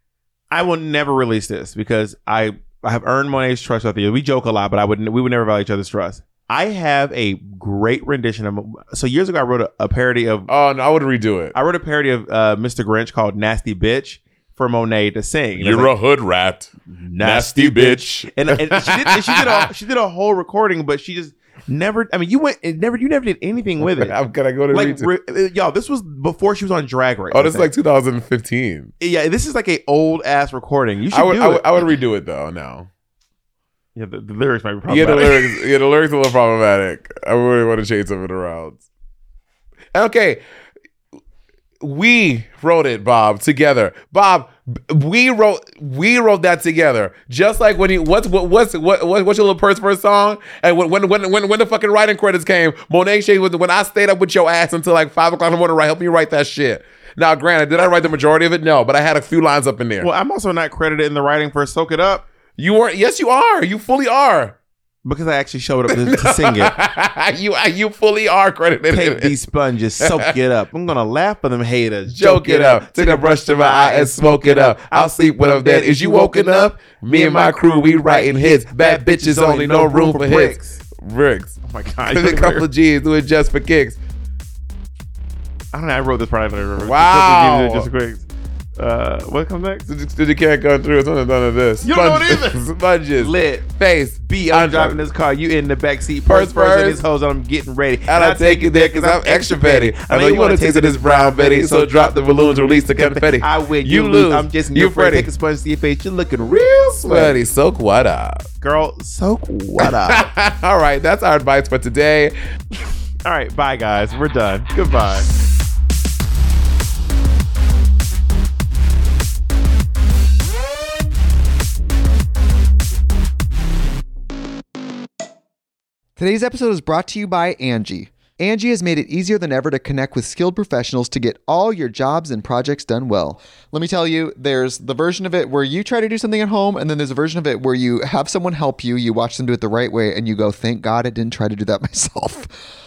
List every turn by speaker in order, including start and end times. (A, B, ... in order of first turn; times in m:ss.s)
0:00.5-0:10.5 A
0:10.5-0:11.5 B
0:11.5-0:15.9 A
0:15.6-0:19.6 B
0:16.9-0:24.1 A
0:23.8-0:25.1 B
0:24.7-0:27.7 A
0:27.3-0:28.9 B
0:29.0-0:31.6 A
0:31.1-0:32.9 B
0:34.0-0:35.6 A
0:34.9-0:38.8 B
0:39.9-0:40.4 B
0:41.8-1:00.1 B
1:00.0-1:02.2 A
1:02.6-1:04.6 B
1:05.0-1:06.7 A
1:05.9-1:09.4 B
1:08.9-1:20.8 A
1:10.0-1:10.3 B
1:12.1-1:24.0 B
1:21.7-1:22.7 A
1:25.7-1:28.2 A
1:26.8-1:27.9 B
1:28.8-1:29.8 A
1:29.9-1:35.0 B
1:31.8-1:32.6 A
1:33.2-1:33.7 A
1:34.2-1:47.4 A
1:36.3-1:37.0 B
1:38.1-1:45.3 B
1:47.0-1:48.4 B
1:48.6-1:50.3 A
1:49.8-1:52.3 B
1:53.2-1:55.3 A
2:06.2-2:22.6 C